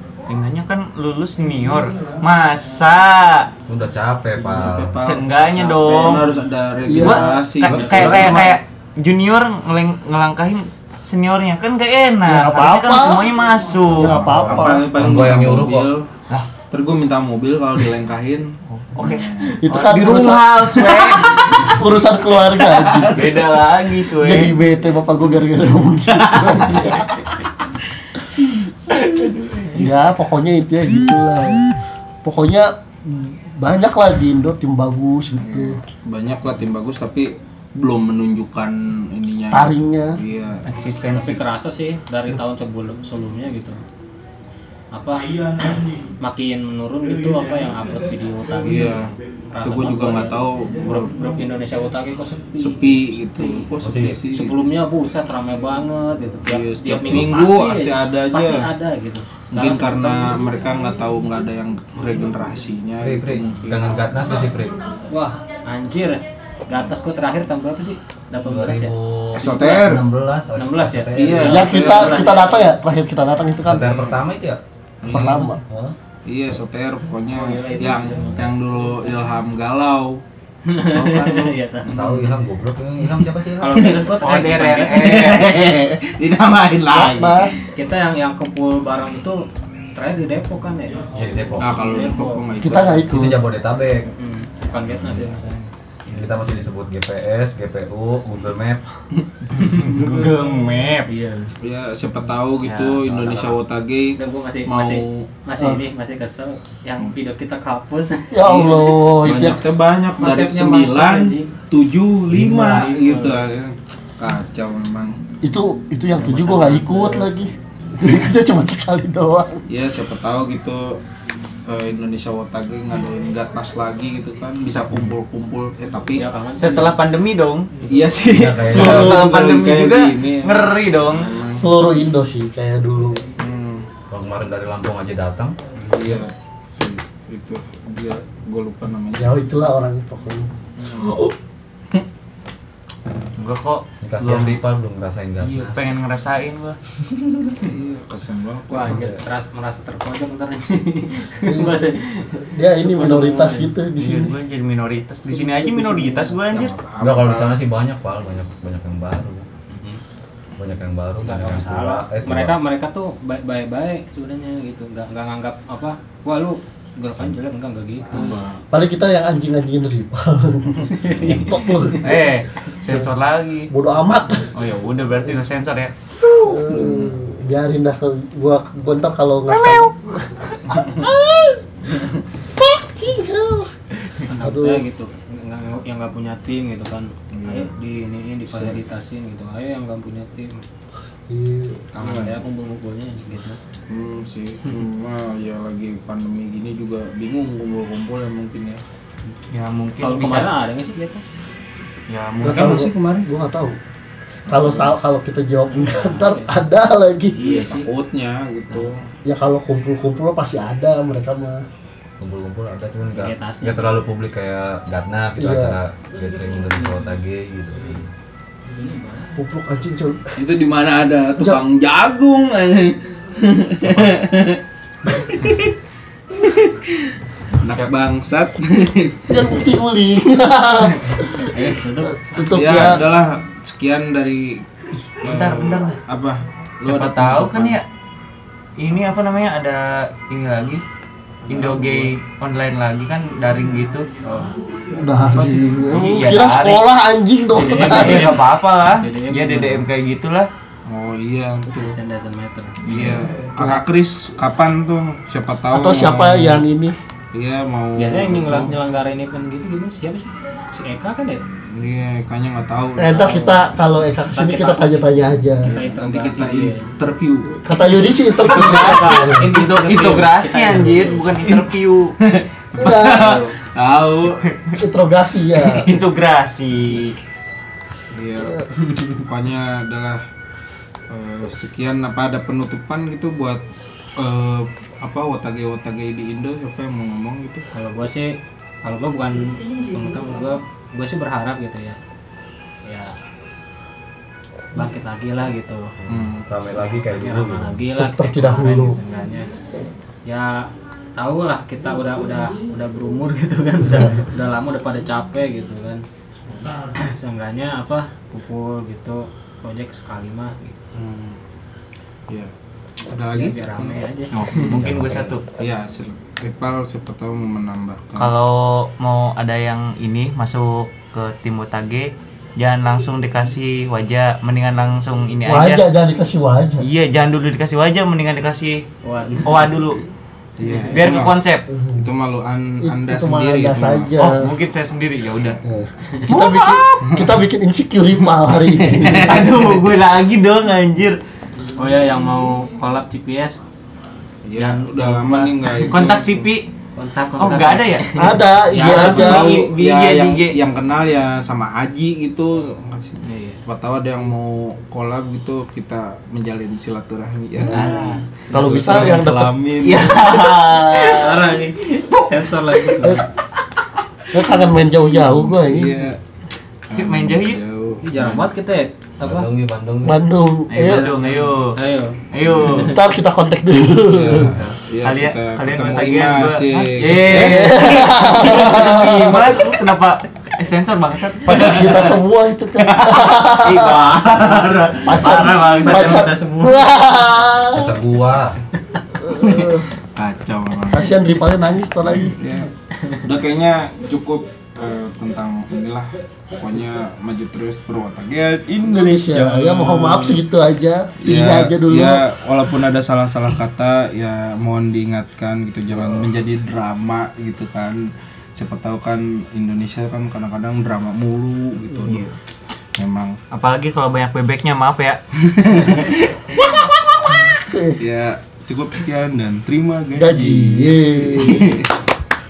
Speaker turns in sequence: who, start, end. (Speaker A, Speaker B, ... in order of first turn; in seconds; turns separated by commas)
Speaker A: 0.3-3.5, Speaker B: 3.7-5.1, Speaker C: 4.4-8.6, Speaker A: 5.0-6.3, Speaker D: 6.9-7.4, Speaker A: 7.0-14.2, Speaker B: 7.6-8.6, Speaker D: 12.2-13.4, Speaker D: 14.0-14.9, Speaker C: 14.0-16.1, Speaker B: 14.2-16.4, Speaker C: 16.7-19.5, Speaker A: 18.7-21.8, Speaker D: 19.6-27.1, Speaker A: 22.8-24.6, Speaker A: 29.0-29.7, Speaker D: 29.7-31.6, Speaker D: 32.2-35.8, Speaker C: 35.4-40.7, Speaker D: 39.5-40.2, Speaker A: 40.7-41.4, Speaker E: 41.0-43.8, Speaker E: 44.9-53.7, Speaker C: 48.6-51.2, Speaker C: 52.6-54.6, Speaker B: 53.8-54.3, Speaker E: 54.3-60.4, Speaker C: 56.5-58.7, Speaker C: 59.5-64.2, Speaker B: 63.0-64.8, Speaker E: 65.1-69.0, Speaker B: 68.4-71.8, Speaker C: 69.3-70.0, Speaker E: 70.5-72.8, Speaker C: 71.2-72.3, Speaker D: 71.5-74.1, Speaker B: 73.6-76.0, Speaker C: 75.0-75.5, Speaker D: 75.1-75.6, Speaker C: 76.3-80.2, Speaker E: 77.3-78.5, Speaker E: 80.7-82.0, Speaker A: 81.0-81.5, Speaker C: 81.0-82.4, Speaker B: 81.9-84.0, Speaker E: 83.6-85.4, Speaker C: 83.6-87.7, Speaker A: 84.2-85.5, Speaker D: 86.9-87.7, Speaker E: 87.7-91.1, Speaker B: 91.1-91.8, Speaker C: 91.6-93.1, Speaker E: 91.8-92.5, Speaker D: 92.6-93.4, Speaker B: 93.1-94.1, Speaker E: 94.0-95.7, Speaker B: 96.1-98.8, Speaker C: 99.2-100.4, Speaker E: 99.7-100.2, Speaker A: 99.8-101.2, Speaker E: 101.1-101.5, Speaker C: 101.6-105.3, Speaker A: 102.6-103.5, Speaker E: 104.2-108.3, Speaker D: 105.6-105.8, Speaker D: 108.3-109.7, Speaker C: 108.4-115.2, Speaker E: 110.2-111.5, Speaker E: 112.3-113.5, Speaker D: 115.4-119.7, Speaker E: 116.2-117.3, Speaker C: 119.7-121.0, Speaker C: 121.7-126.3, Speaker E: 126.2-127.0, Speaker A: 126.6-127.7, Speaker C: 127.9-131.7, Speaker B: 128.2-129.2, Speaker A: 128.6-131.3, Speaker D: 131.5-133.2, Speaker C: 133.4-133.9, Speaker B: 134.1-135.6, Speaker C: 135.8-139.3, Speaker D: 139.2-140.5, Speaker C: 140.8-141.3, Speaker A: 143.4-144.6, Speaker B: 144.0-145.9, Speaker A: 145.4-146.8, Speaker B: 147.1-147.6, Speaker C: 147.6-149.2, Speaker E: 148.7-153.7, Speaker B: 148.8-149.2, Speaker D: 151.5-151.9, Speaker D: 152.5-154.3, Speaker A: 154.0-156.8, Speaker D: 155.3-156.3, Speaker C: 156.5-157.7, Speaker B: 157.0-159.5, Speaker B: 160.6-162.6, Speaker E: 161.2-168.5, Speaker C: 168.1-168.6, Speaker D: 168.7-172.2, Speaker E: 170.9-171.4, Speaker B: 171.2-171.6, Speaker A: 172.0-173.7, Speaker D: 173.7-174.6, Speaker A: 174.5-176.3, Speaker D: 176.4-181.8, Speaker A: 179.5-179.9, Speaker D: 182.4-183.7, Speaker E: 184.2-190.6, Speaker D: 184.3-184.9, Speaker C: 187.3-187.8, Speaker C: 188.5-188.8, Speaker D: 191.3-191.9, Speaker C: 191.9-192.4, Speaker E: 191.9-193.6, Speaker C: 193.9-198.8, Speaker A: 199.5-200.5, Speaker E: 200.0-201.3, Speaker A: 202.1-202.8, Speaker D: 202.4-203.8, Speaker C: 202.4-203.3, Speaker D: 204.5-207.5, Speaker C: 204.5-204.9, Speaker E: 205.8-206.6, Speaker E: 207.3-207.9, Speaker C: 207.7-209.0, Speaker D: 209.2-211.7, Speaker B: 212.2-218.1, Speaker E: 213.1-214.0, Speaker D: 215.4-215.8, Speaker E: 218.7-219.4, Speaker D: 219.4-220.4, Speaker C: 220.4-225.8, Speaker C: 226.3-229.5, Speaker A: 227.6-227.9, Speaker D: 229.3-233.0, Speaker C: 231.1-231.8, Speaker E: 231.5-232.9, Speaker C: 232.4-237.8, Speaker A: 235.2-236.0, Speaker A: 236.8-237.8, Speaker A: 238.8-240.8, Speaker E: 241.5-242.1, Speaker A: 241.5-244.1, Speaker C: 244.2-244.5, Speaker D: 244.9-248.4, Speaker A: 245.9-246.8, Speaker E: 247.5-249.9, Speaker A: 247.6-250.5, Speaker C: 250.9-252.0, Speaker E: 251.7-252.8, Speaker A: 252.8-253.3, Speaker C: 252.9-256.6, Speaker D: 255.7-257.0, Speaker C: 257.3-258.8, Speaker E: 258.0-261.4, Speaker C: 261.7-263.6, Speaker D: 263.0-265.7, Speaker E: 263.2-263.6, Speaker E: 264.3-265.1, Speaker E: 265.6-266.9, Speaker C: 265.6-267.7, Speaker D: 267.6-269.5, Speaker A: 268.4-272.2, Speaker E: 268.4-271.4, Speaker C: 272.2-274.4, Speaker D: 272.8-273.4, Speaker A: 272.9-273.4, Speaker A: 273.9-274.8, Speaker D: 274.8-275.9, Speaker A: 275.6-277.2, Speaker C: 278.1-280.2, Speaker D: 278.4-278.7, Speaker C: 281.1-283.6, Speaker C: 284.2-287.6, Speaker E: 287.7-292.0, Speaker E: 292.8-293.2, Speaker E: 294.7-295.9, Speaker B: 296.0-297.8, Speaker C: 296.1-296.5, Speaker E: 296.9-299.5, Speaker D: 297.9-299.0, Speaker E: 300.3-306.0, Speaker D: 303.9-304.3, Speaker E: 306.6-310.8, Speaker C: 310.9-311.4, Speaker C: 313.1-314.9, Speaker E: 313.3-315.3, Speaker A: 314.4-315.5, Speaker C: 315.6-318.4, Speaker A: 318.2-325.9, Speaker D: 325.5-326.9, Speaker A: 326.8-328.9, Speaker E: 329.0-329.7, Speaker A: 329.4-330.0, Speaker C: 330.6-331.4, Speaker E: 330.6-331.0, Speaker A: 330.9-331.7, Speaker D: 331.7-332.1, Speaker C: 332.0-334.1, Speaker D: 332.8-334.5, Speaker A: 334.2-335.6, Speaker D: 335.6-339.5, Speaker A: 336.3-337.0, Speaker C: 337.0-337.3, Speaker C: 338.6-339.7, Speaker A: 339.1-341.2, Speaker E: 341.8-343.6, Speaker C: 344.4-346.5, Speaker E: 344.6-345.9, Speaker A: 345.8-346.7, Speaker E: 347.0-348.4, Speaker A: 347.4-348.2, Speaker D: 348.2-349.6, Speaker C: 348.7-360.4, Speaker A: 348.8-350.6, Speaker E: 353.2-353.6, Speaker D: 357.6-357.9, Speaker A: 357.7-358.2, Speaker E: 357.8-359.1, Speaker D: 358.5-359.6, Speaker A: 359.8-361.5, Speaker E: 360.2-363.3, Speaker D: 363.0-363.2, Speaker D: 364.3-366.0, Speaker C: 365.1-366.2, Speaker C: 366.9-368.5, Speaker A: 366.9-367.6, Speaker E: 368.0-369.5, Speaker B: 369.2-370.2, Speaker D: 370.0-371.1, Speaker A: 370.7-371.8, Speaker E: 370.8-373.0, Speaker A: 372.3-373.0, Speaker D: 372.7-374.5, Speaker C: 374.1-377.8, Speaker A: 374.5-382.2, Speaker D: 377.3-379.7, Speaker D: 381.4-384.1, Speaker A: 383.0-386.6, Speaker D: 385.0-388.0, Speaker E: 385.9-386.8, Speaker B: 387.7-388.6, Speaker D: 389.2-389.9, Speaker C: 389.3-391.4, Speaker D: 390.9-392.4, Speaker C: 392.1-400.4, Speaker E: 392.9-393.3, Speaker D: 398.8-402.2, Speaker C: 401.2-412.4, Speaker C: 413.0-413.4, Speaker A: 413.5-415.2, Speaker C: 415.4-416.7, Speaker D: 416.8-418.0, Speaker C: 418.0-421.9, Speaker D: 420.2-421.8